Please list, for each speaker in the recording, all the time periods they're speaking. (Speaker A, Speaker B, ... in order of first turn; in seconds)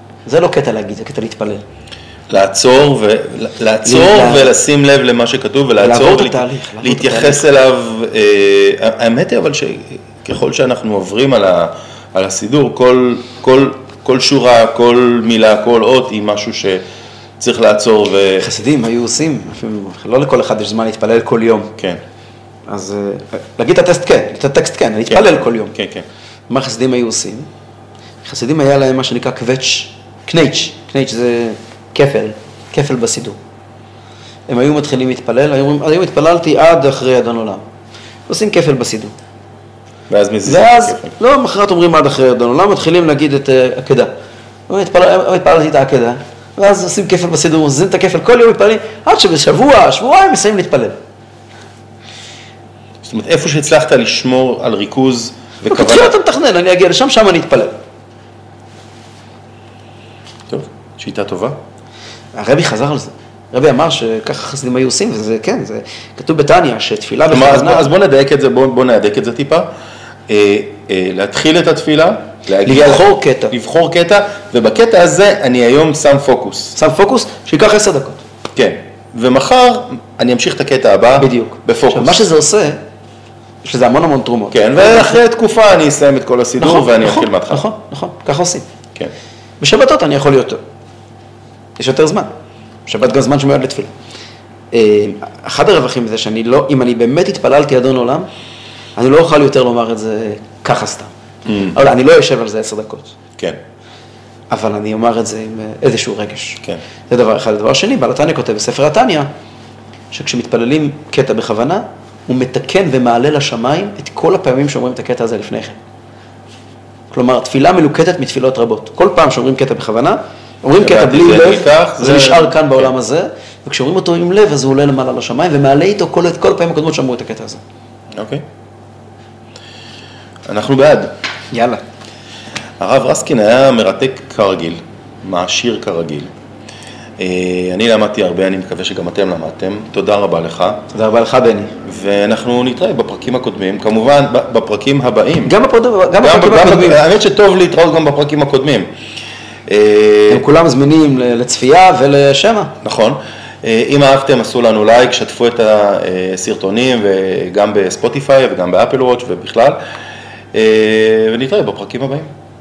Speaker A: 0.2-1.6, 3.8-4.5, 5.8-7.6, 18.4-21.7, 22.7-25.7, 26.5-27.5, 28.2-33.4, 34.5-37.6, 38.3-39.1, 40.4-44.1, 44.7-51.0, 55.7-57.7, 62.3-67.9, 72.6-73.5, 76.8-78.2, 81.2-82.8, 83.6-85.2, 86.6-88.7, 89.6-90.6, 91.8-92.3, 92.8-93.9, 94.7-98.3, 99.0-101.1, 101.7-103.1, 104.5-109.3, 110.1-115.8, 117.1-127.6, 131.5-131.8, 140.9-141.7, 145.4-147.0, 150.3-152.7
Speaker B: 2.3-16.8, 17.4-18.5, 25.1-26.1, 40.1-41.1, 53.0-56.1, 60.5-61.6, 67.3-69.7, 70.3-76.8, 78.5-82.2, 84.5-87.6, 101.5-101.8, 120.8-122.9, 128.1-128.4, 130.5-131.1, 132.8-136.3, 137.2-140.8, 141.8-145.5, 146.2-148.9, 149.7-150.4, 152.8-159.8, 160.5-162.3